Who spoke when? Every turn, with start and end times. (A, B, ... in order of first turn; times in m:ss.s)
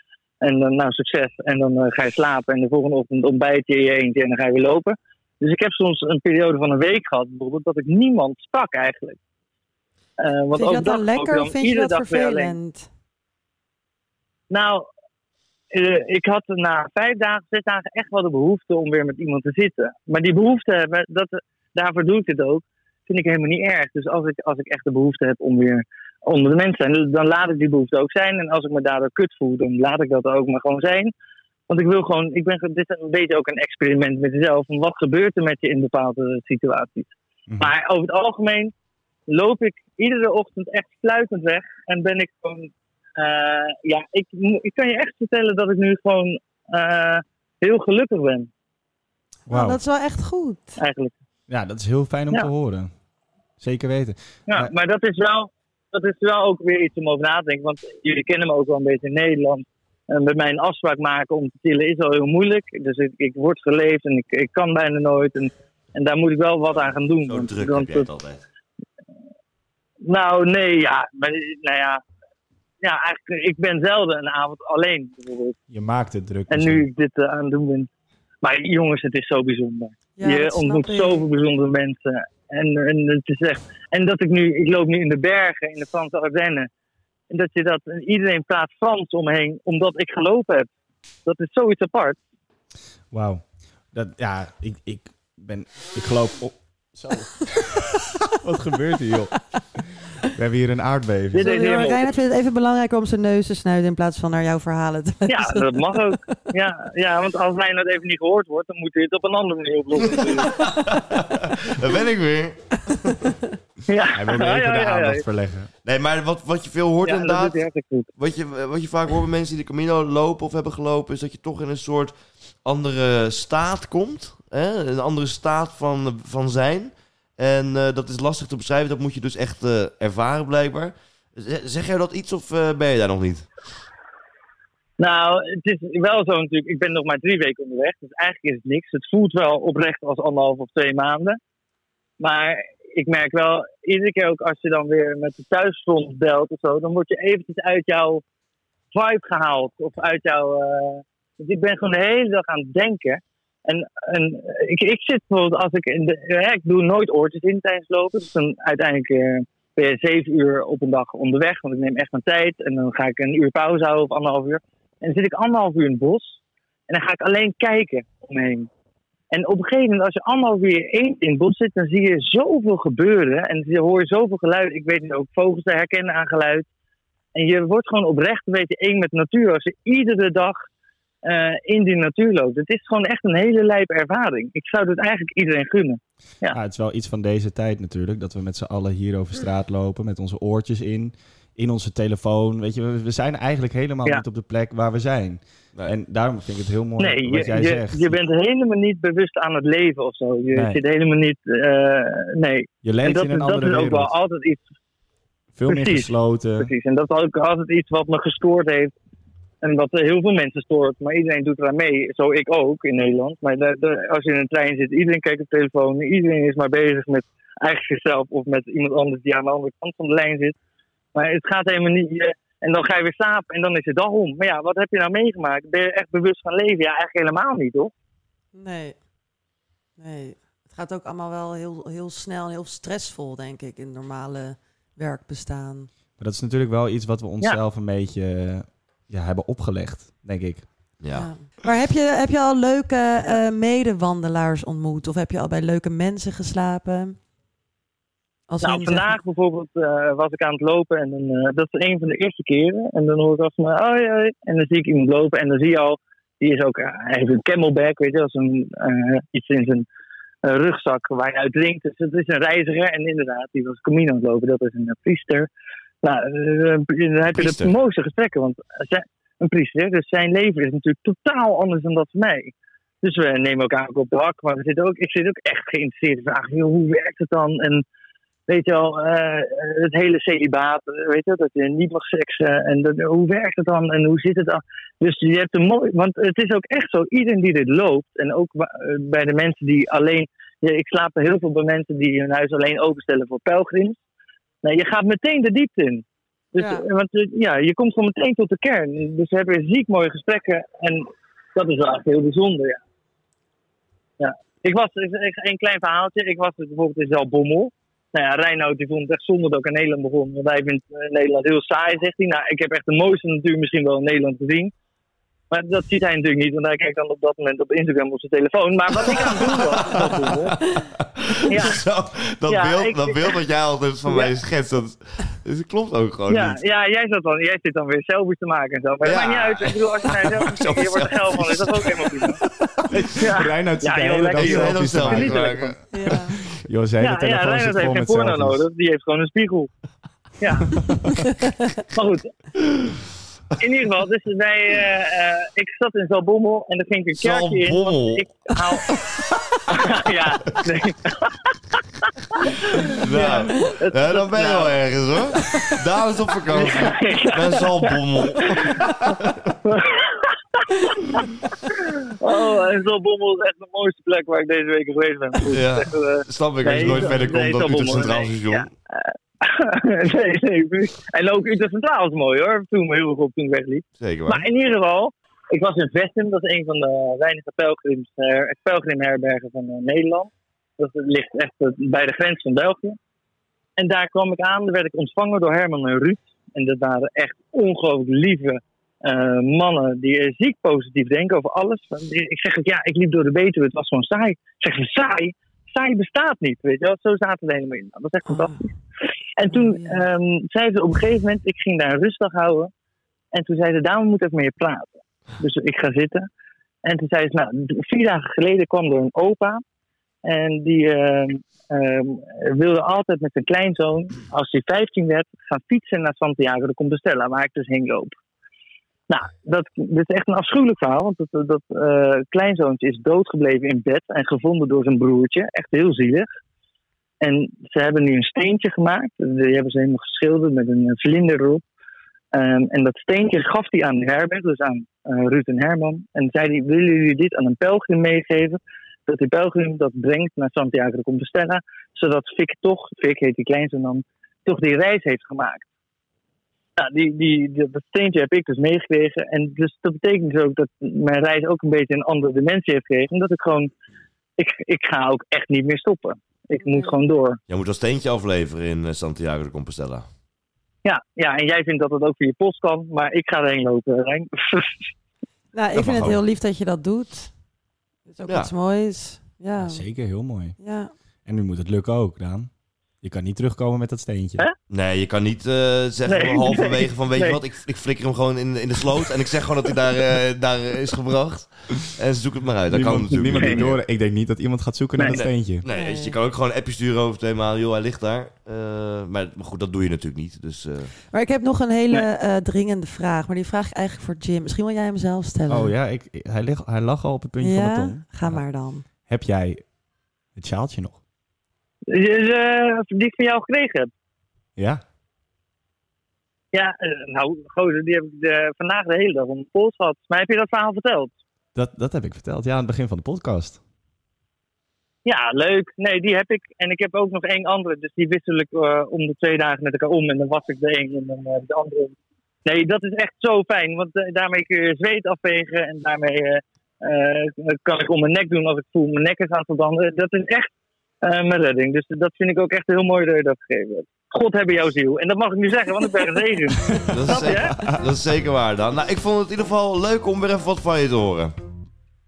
0:00.4-0:09.2 A
0:10.2-0:12.6 A
0:10.5-0:12.9 B
0:14.5-0:14.8 A
0:15.7-0:31.1 A
0:31.7-0:38.7 A
0:37.5-0:37.7 C
0:39.3-0:48.5 A
0:49.5-0:49.8 C
0:49.5-0:50.8 B
0:50.8-0:51.1 A
0:51.5-0:52.9 C
0:53.6-0:54.7 C
0:54.5-1:08.1 A
1:07.2-1:08.4 D
1:10.0-1:12.0 A
1:12.8-1:15.6 A
1:15.7-1:16.8 C
1:16.5-1:17.9 A
1:18.4-1:26.7 A
1:20.2-1:21.2 B
1:27.3-1:30.7 A
1:31.2-1:32.2 A
1:33.1-1:39.4 C
1:40.2-1:41.5 C
1:41.3-1:42.1 A
1:41.4-1:45.8 B
1:45.3-1:50.7 A
1:50.0-1:53.0 D
1:53.9-1:55.2 A
1:54.1-1:55.7 C
1:55.8-1:57.6 D
1:57.0-1:58.1 A
1:58.2-2:02.1 D
2:02.6-2:13.5 D
2:15.0-2:21.4 A
2:22.2-2:28.2 A
2:28.9-2:46.4 A
2:46.9-2:48.7 A
2:49.3-2:56.7 A
2:57.3-3:00.6 A
3:01.2-3:06.6 A
3:06.5-3:18.1 C
3:17.0-3:24.6 A
3:20.5-3:20.8 C
3:22.8-3:24.1 C
3:25.5-3:26.7 C
3:25.7-3:28.9 A
3:29.6-3:40.6 A
3:41.1-3:47.9 A
3:48.5-3:49.0 B
3:50.0-3:55.9 B
3:56.2-4:00.6 C
4:01.0-4:01.3 D
4:01.1-4:07.2 B
4:08.5-4:09.1 B
4:08.6-4:19.9 A
4:20.4-4:25.5 A
4:26.0-4:37.8 A
4:27.3-4:27.7 D
4:38.5-4:54.0 A
4:54.6-5:02.8 A
4:56.6-4:56.8 B
5:04.2-5:14.7 A
5:15.5-5:20.6 A
5:19.0-5:26.6 D
5:21.5-5:21.8 A
5:22.5-5:23.4 A
5:24.1-5:24.3 A
5:26.3-5:32.4 A
5:29.0-5:32.3 D
5:32.8-5:38.6 C
5:33.2-5:35.7 A
5:34.3-5:35.8 D
5:35.9-5:36.4 B
5:37.0-5:39.7 A
5:40.4-5:40.8 A
5:41.8-5:42.3 A
5:43.6-5:48.9 A
5:47.2-5:49.2 D
5:49.7-5:51.8 A
5:52.3-5:54.8 A
5:52.7-5:59.5 D
5:56.5-5:58.9 A
5:59.6-6:23.0 A
6:05.5-6:08.7 D
6:14.0-6:14.5 D
6:23.8-6:38.7 A
6:38.3-6:38.6 B
6:39.4-6:42.7 A
6:39.5-6:40.0 B
6:43.3-6:46.3 A
6:46.8-6:49.6 A
6:50.2-6:58.1 A
6:59.1-7:06.3 A
7:07.2-7:11.6 A
7:12.3-7:25.6 A
7:26.8-7:33.7 A
7:34.4-7:37.4 A
7:36.6-7:36.9 B
7:37.5-7:40.0 D
7:40.8-7:44.8 A
7:45.5-7:47.3 B
7:45.7-7:46.2 D
7:48.1-7:49.8 B
7:49.6-7:50.6 C
7:50.6-7:50.9 B
7:51.2-7:52.5 C
7:53.0-7:54.4 C
7:54.7-8:03.8 D
7:56.1-7:57.4 A
8:02.7-8:05.6 C
8:03.4-8:03.6 A
8:05.0-8:05.2 A
8:05.0-8:10.9 D
8:05.7-8:06.2 B
8:11.1-8:15.7 B
8:15.5-8:18.4 C
8:17.4-8:18.8 B
8:19.0-8:19.6 C
8:20.4-8:21.0 C
8:21.9-8:23.9 A
8:24.6-8:24.8 C
8:26.5-8:31.1 A
8:31.5-8:33.6 C
8:35.0-8:50.5 A
8:51.0-8:57.6 A
8:56.6-8:57.8 C
8:56.9-9:01.3 D